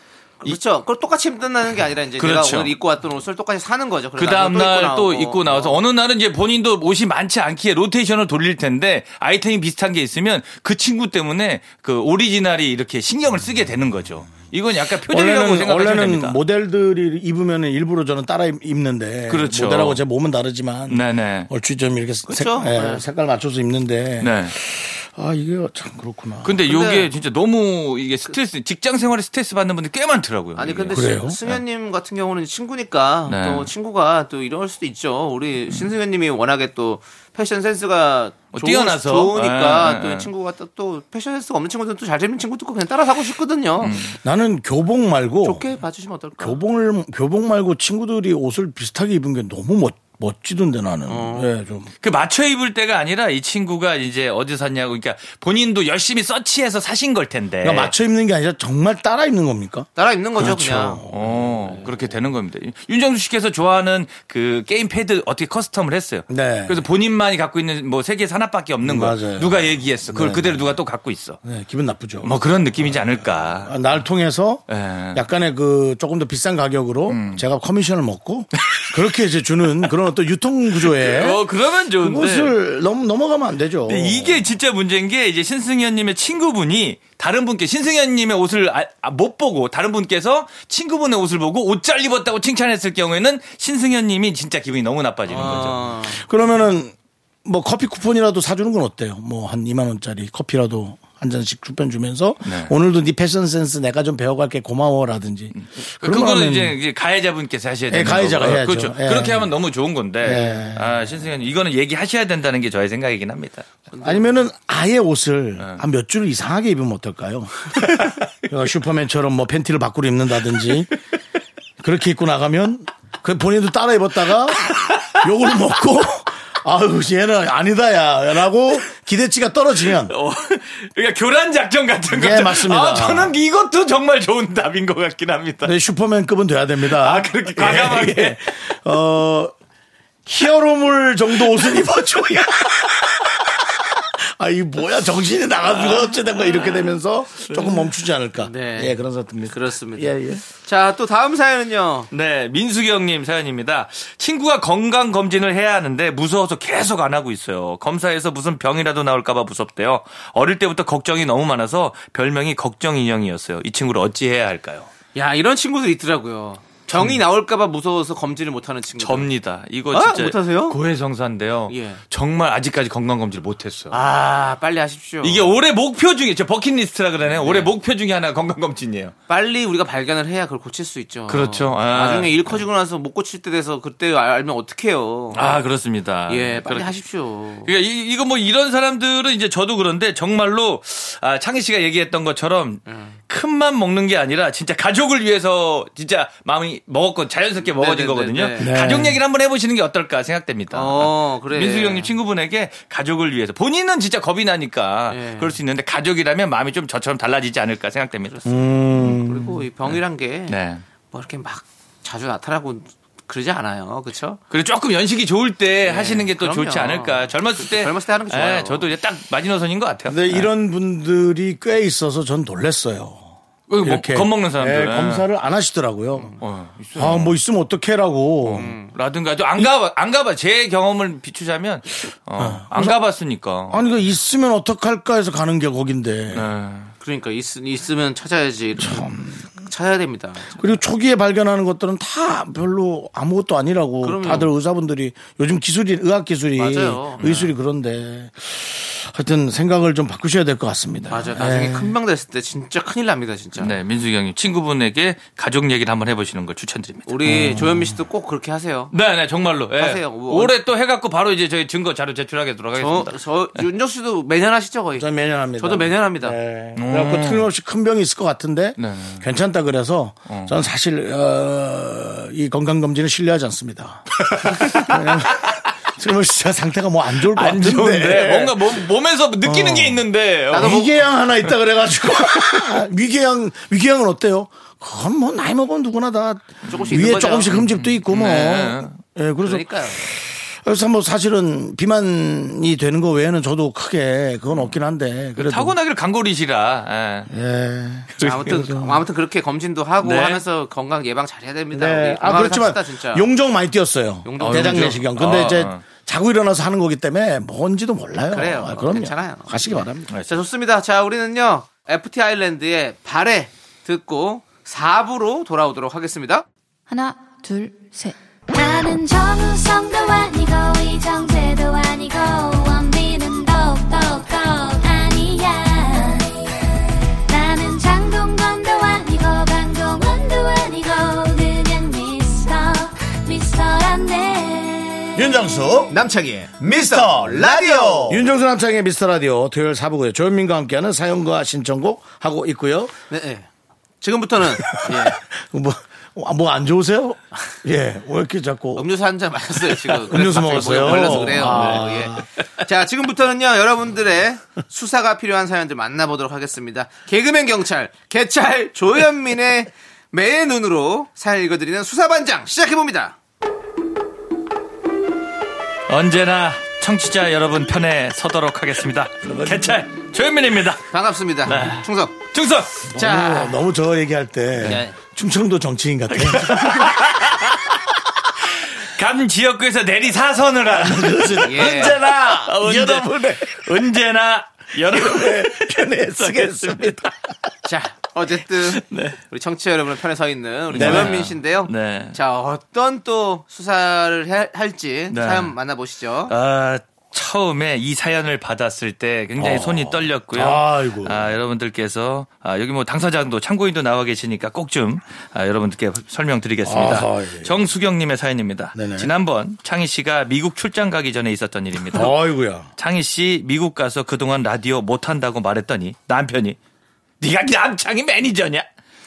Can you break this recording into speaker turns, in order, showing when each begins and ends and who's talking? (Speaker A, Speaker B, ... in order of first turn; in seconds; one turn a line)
Speaker A: 0.4-5.8
Speaker B: 2.2-2.7
Speaker B: 4.2-16.4
Speaker C: 15.1-26.6
Speaker B: 19.3-20.0
Speaker B: 20.9-21.5
Speaker A: 22.3-23.0
Speaker B: 24.2-24.5
Speaker B: 26.4-31.6
Speaker A: 26.6-27.1
Speaker A: 30.6-44.1
Speaker C: 30.9-31.4
Speaker B: 33.3-33.7
Speaker B: 38.5-40.3
Speaker B: 43.8-44.1
Speaker C: 44.1-45.6
Speaker A: 45.4-46.6
Speaker C: 46.4-51.9
Speaker A: 51.1-51.5
Speaker B: 52.0-57.9
Speaker C: 57.6-61.8
Speaker A: 60.0-61.0
Speaker B: 61.1-71.4
Speaker C: 66.3-66.8
Speaker C: 68.8-70.7
Speaker C: 71.4-73.0
Speaker B: 72.2-73.8
Speaker C: 73.6-84.4
Speaker B: 74.7-75.2
Speaker B: 77.1-77.4
Speaker B: 78.7-78.9
Speaker B: 80.8-82.5
Speaker B: 83.9-95.8
Speaker A: 95.3-96.2
Speaker C: 96.1-96.9
Speaker C: 97.5-106.8
Speaker B: 102.4-102.7
Speaker B: 105.5-113.7
Speaker C: 107.9-109.5
Speaker C: 110.2-111.0
Speaker A: 113.9-114.3
Speaker C: 114.0-120.9
Speaker C: 121.8-130.1
Speaker B: 130.1-135.7
Speaker C: 132.1-133.3
Speaker C: 135.6-139.5
Speaker B: 136.9-138.4
Speaker C: 140.3-150.4
Speaker B: 147.5-147.9
Speaker A: 148.4-152.1
Speaker B: 152.1-164.9
Speaker A: 165.2-169.3
Speaker B: 169.0-174.0
Speaker A: 169.9-170.8
Speaker A: 171.7-172.0
Speaker A: 173.9-175.6
Speaker B: 175.2-179.1
Speaker A: 177.3-177.7
Speaker A: 179.3-185.6
Speaker B: 181.3-182.6
Speaker B: 185.3-186.9
Speaker A: 186.3-187.7
Speaker B: 187.7-208.4
Speaker A: 192.9-193.2
Speaker A: 197.6-198.8
Speaker C: 198.6-199.2
Speaker A: 200.7-202.1
Speaker A: 205.1-205.6
Speaker A: 208.3-210.6
Speaker C: 208.5-209.5
Speaker B: 210.5-210.8
Speaker A: 211.1-214.4
Speaker B: 214.5-220.5
Speaker A: 215.8-218.9
Speaker C: 220.1-223.3
Speaker B: 223.7-225.2
Speaker C: 223.8-226.3
Speaker B: 226.4-227.3
Speaker C: 226.9-228.7
Speaker B: 228.4-233.8
Speaker A: 228.6-228.9
Speaker C: 232.4-233.0
Speaker C: 233.7-236.5
Speaker B: 236.3-236.9
Speaker A: 237.0-240.8
Speaker C: 238.8-239.4
Speaker C: 240.6-251.9
Speaker A: 244.0-244.5
Speaker A: 246.6-247.5
Speaker B: 247.2-247.5
Speaker A: 251.1-253.8
Speaker B: 253.6-257.1
Speaker A: 257.1-258.9
Speaker C: 257.2-257.9
Speaker B: 258.9-263.2
Speaker A: 259.8-260.5
Speaker A: 262.8-266.4
Speaker C: 265.0-278.8
Speaker B: 266.8-267.5
Speaker B: 268.8-269.2
Speaker B: 270.3-270.6
Speaker B: 274.2-275.5
Speaker B: 277.2-280.9
Speaker C: 279.4-295.8
Speaker A: 280.5-280.9
Speaker A: 286.7-287.6
Speaker B: 286.8-289.0
Speaker A: 289.4-290.0
Speaker B: 295.4-297.3
Speaker C: 297.3-299.0
Speaker B: 298.1-298.7
Speaker A: 298.2-303.3
Speaker B: 300.0-300.4
Speaker C: 301.7-310.1
Speaker A: 304.2-305.1
Speaker B: 304.4-305.9
Speaker A: 308.3-316.5
Speaker D: 318.5-326.7
Speaker D: 327.3-335.5
Speaker C: 335.2-335.9
Speaker A: 335.9-338.3
Speaker C: 338.1-342.9
Speaker A: 343.1-343.5
Speaker A: 344.0-345.2
Speaker C: 344.7-348.9
Speaker A: 348.8-363.1
Speaker C: 350.0-352.2
Speaker B: 350.4-351.9
Speaker B: 365.9-370.8
Speaker C: 369.2-369.8
Speaker A: 370.9-372.2
Speaker B: 371.4-372.9
Speaker C: 372.9-377.1
Speaker A: 372.9-373.6
Speaker A: 374.6-375.0
Speaker B: 376.2-377.7
Speaker B: 378.4-387.1
Speaker C: 380.7-383.7
Speaker A: 381.4-382.0
Speaker C: 384.8-387.1
Speaker A: 387.7-396.3
Speaker B: 388.7-389.2
Speaker B: 390.7-392.2
Speaker C: 390.8-391.2
Speaker B: 395.1-395.5
Speaker B: 396.3-412.1
Speaker C: 399.4-401.3
Speaker C: 406.6-407.6
Speaker C: 408.8-409.1
Speaker C: 411.8-412.7
Speaker B: 412.8-416.6
Speaker B: 417.2-418.7